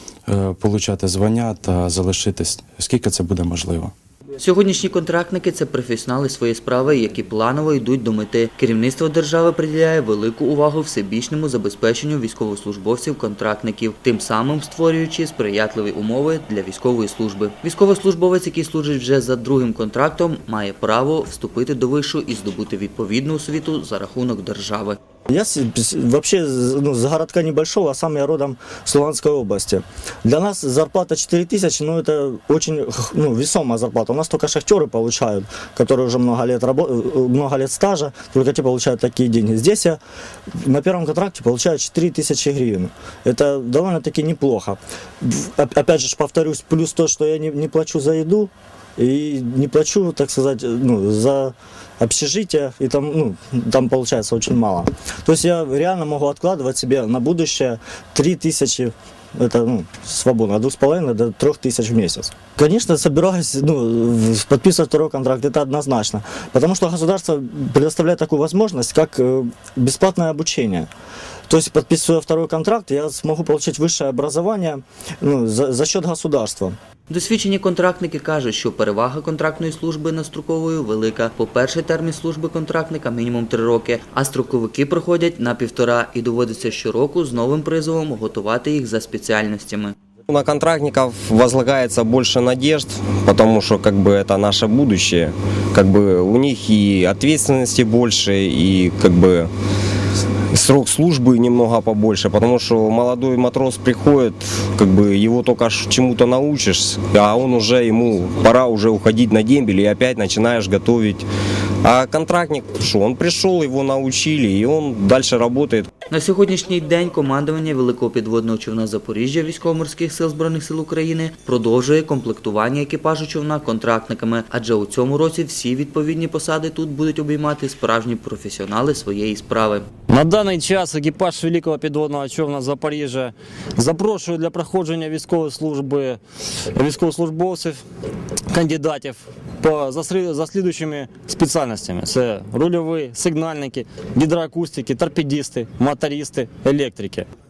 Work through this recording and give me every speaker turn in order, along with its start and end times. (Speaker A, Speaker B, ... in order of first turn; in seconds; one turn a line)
Speaker A: 0.3-3.9
Speaker B: 4.4-25.0
Speaker C: 25.3-70.9
Speaker C: 71.5-76.8
Speaker B: 77.1-89.9
Speaker D: 90.3-99.5
Speaker D: 100.5-111.2
Speaker D: 111.8-115.9
Speaker B: 116.1-129.9
Speaker E: 130.1-136.2
Speaker E: 136.7-137.8
Speaker E: 138.5-147.2